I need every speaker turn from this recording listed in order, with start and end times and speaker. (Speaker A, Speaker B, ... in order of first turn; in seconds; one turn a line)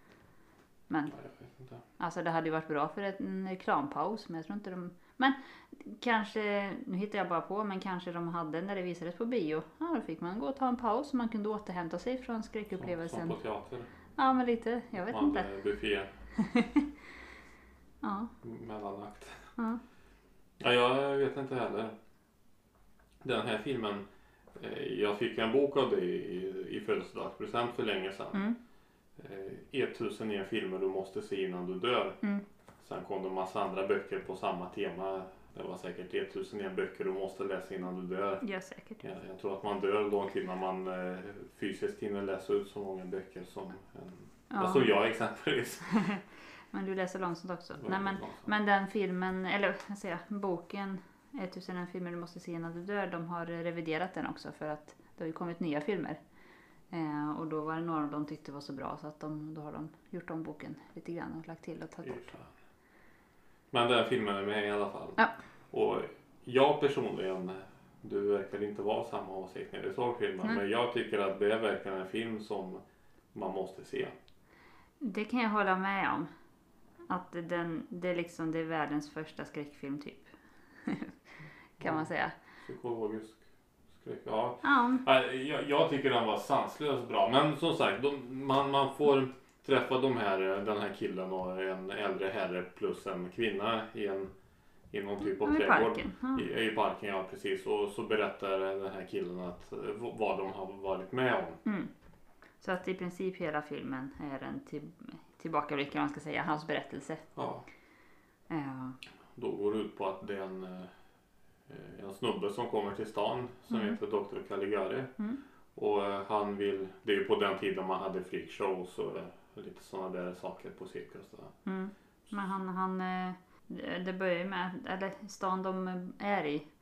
Speaker A: 0.9-1.1
Speaker B: 1.1-1.8
Speaker A: 2.0-13.4
Speaker B: 12.8-13.9
Speaker A: 14.2-15.5
Speaker B: 15.0-16.1
Speaker A: 16.4-16.9
Speaker A: 18.0-18.3
Speaker B: 18.4-19.5
Speaker A: 19.6-19.8
Speaker B: 20.6-21.9
Speaker B: 23.2-28.4
Speaker B: 29.2-32.2
Speaker B: 32.8-38.4
Speaker A: 38.4-39.0
Speaker B: 39.0-45.8
Speaker A: 44.5-44.9
Speaker A: 45.9-56.2
Speaker B: 47.8-48.5
Speaker A: 56.9-62.3
Speaker B: 62.0-62.5
Speaker B: 63.7-65.2
Speaker B: 65.7-72.8
Speaker B: 73.3-74.1
Speaker A: 75.0-76.3
Speaker A: 77.1-80.3
Speaker A: 80.8-81.1
Speaker A: 81.8-82.3
Speaker B: 81.8-82.1
Speaker B: 82.6-83.4
Speaker B: 83.9-94.3
Speaker A: 84.6-85.0
Speaker B: 94.9-101.6
Speaker A: 95.4-96.5
Speaker A: 101.6-101.9
Speaker A: 102.6-107.2
Speaker B: 107.3-107.7
Speaker A: 108.5-109.0
Speaker B: 109.3-110.9
Speaker B: 111.7-115.1
Speaker A: 113.7-114.0
Speaker B: 115.7-121.5
Speaker A: 121.6-126.7